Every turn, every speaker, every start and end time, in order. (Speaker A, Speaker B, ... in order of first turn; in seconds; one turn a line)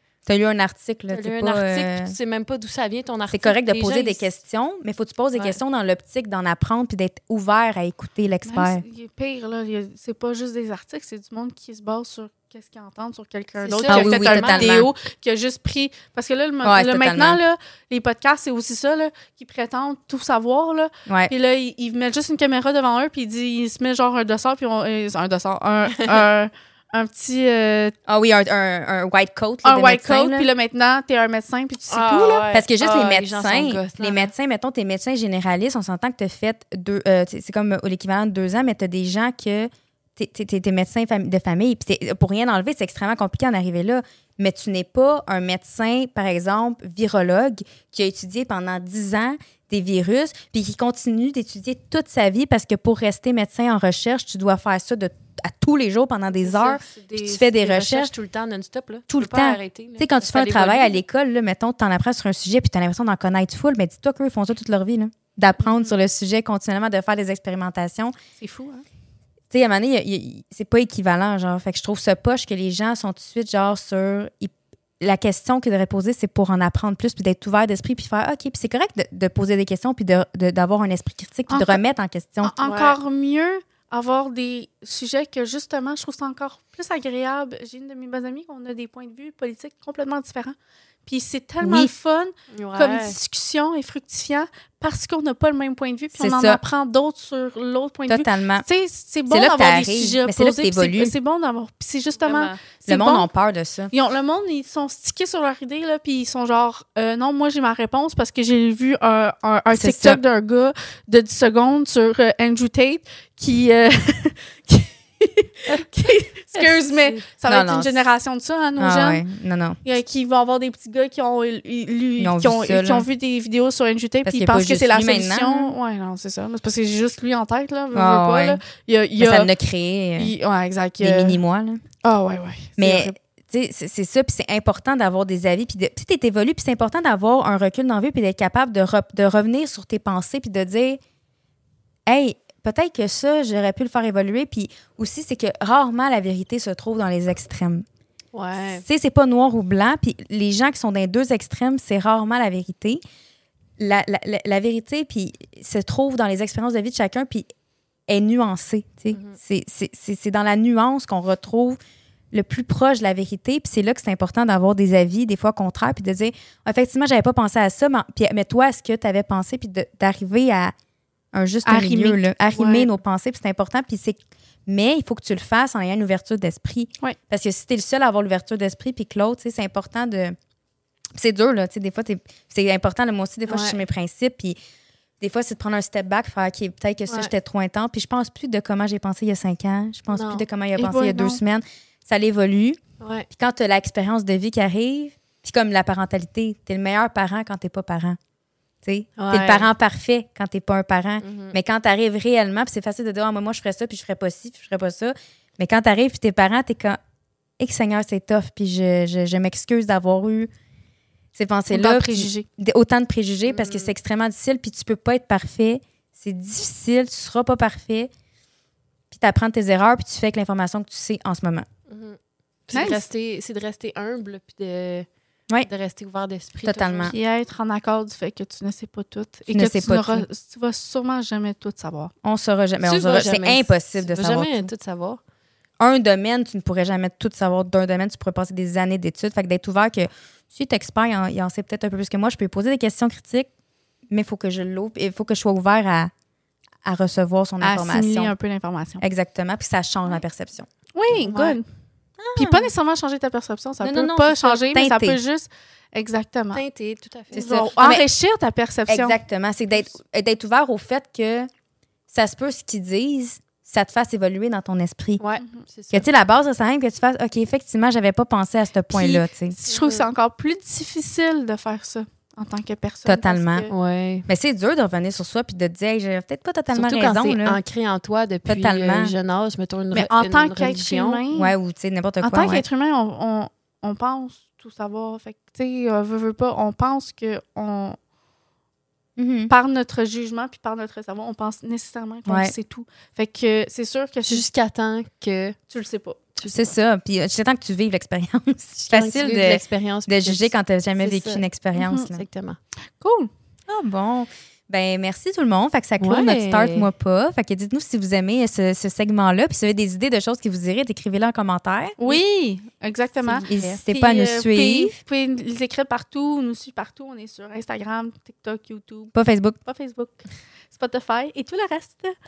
Speaker A: 0.2-2.1
Speaker B: 1.1-4.3
Speaker A: 3.3-8.8
Speaker B: 5.3-5.6
Speaker C: 8.4-27.9
Speaker B: 13.6-14.8
Speaker A: 13.9-14.9
Speaker A: 16.6-17.4
Speaker A: 21.1-21.3
Speaker B: 25.9-26.2
Speaker A: 28.1-30.5
Speaker C: 29.6-32.5
Speaker B: 31.9-34.3
Speaker A: 32.5-58.1
Speaker B: 56.4-61.0
Speaker A: 59.1-68.1
Speaker C: 68.4-68.8
Speaker A: 69.5-82.5
Speaker C: 81.5-81.8
Speaker C: 82.4-103.3
Speaker B: 82.6-83.0
Speaker A: 91.6-91.9
Speaker B: 92.5-93.2
Speaker A: 96.1-96.6
Speaker A: 98.1-98.7
Speaker A: 99.3-101.1
Speaker B: 102.2-102.5
Speaker A: 102.9-103.9
Speaker C: 103.9-119.2
Speaker A: 109.7-110.2
Speaker B: 116.5-117.2
Speaker A: 117.5-118.0
Speaker A: 118.8-119.8
Speaker C: 119.8-129.5
Speaker A: 122.2-123.1
Speaker A: 124.2-125.7
Speaker A: 127.9-128.6
Speaker A: 129.2-130.3
Speaker C: 130.2-131.4
Speaker A: 131.0-131.8
Speaker C: 132.0-133.1
Speaker A: 132.8-141.0
Speaker A: 142.1-147.8
Speaker B: 148.3-148.8
Speaker A: 148.6-153.0
Speaker A: 153.8-157.4
Speaker A: 158.1-161.8
Speaker B: 159.1-159.4
Speaker A: 162.3-170.7
Speaker A: 171.3-180.3
Speaker C: 171.6-172.9
Speaker A: 181.1-184.6
Speaker B: 183.5-183.8
Speaker A: 185.2-192.8
Speaker B: 190.1-190.4
Speaker C: 190.8-191.4
Speaker B: 193.0-193.3
Speaker A: 193.3-198.2
Speaker A: 198.8-207.0
Speaker B: 199.2-199.7
Speaker B: 201.2-201.5
Speaker A: 207.6-210.5
Speaker A: 211.3-218.1
Speaker C: 211.7-212.5
Speaker B: 213.4-213.9
Speaker A: 219.1-221.7
Speaker B: 221.9-225.1
Speaker C: 222.7-223.0
Speaker B: 225.6-227.1
Speaker A: 226.6-227.1
Speaker C: 227.1-232.1
Speaker A: 229.5-230.2
Speaker A: 232.2-234.7
Speaker B: 232.8-235.2
Speaker A: 235.8-243.5
Speaker A: 244.1-246.1
Speaker A: 246.8-248.3
Speaker C: 247.6-249.0
Speaker A: 249.0-250.7
Speaker C: 250.9-251.6
Speaker B: 251.3-251.5
Speaker A: 252.2-252.7
Speaker C: 252.3-256.6
Speaker A: 253.8-255.2
Speaker B: 256.5-257.4
Speaker A: 257.3-258.0
Speaker C: 257.3-259.2
Speaker A: 258.9-261.5
Speaker A: 262.1-265.2
Speaker B: 265.2-266.1
Speaker A: 265.9-269.5
Speaker C: 268.9-273.7
Speaker B: 269.7-270.1
Speaker A: 273.0-273.7
Speaker B: 273.7-274.2
Speaker A: 274.3-277.6
Speaker B: 276.7-281.2
Speaker A: 278.4-279.1
Speaker C: 279.9-281.5
Speaker A: 281.3-282.6
Speaker C: 282.2-288.0
Speaker A: 289.2-289.5
Speaker C: 289.5-294.5
Speaker A: 292.2-292.5
Speaker B: 294.3-295.6
Speaker C: 295.7-296.2
Speaker B: 296.4-296.7
Speaker A: 296.4-302.2
Speaker B: 298.9-301.4
Speaker C: 301.8-302.0
Speaker B: 302.0-302.6
Speaker C: 303.0-303.3
Speaker A: 303.7-312.0
Speaker B: 306.0-306.9
Speaker C: 312.0-322.2
Speaker B: 313.2-313.8
Speaker A: 313.5-315.0
Speaker A: 319.1-319.6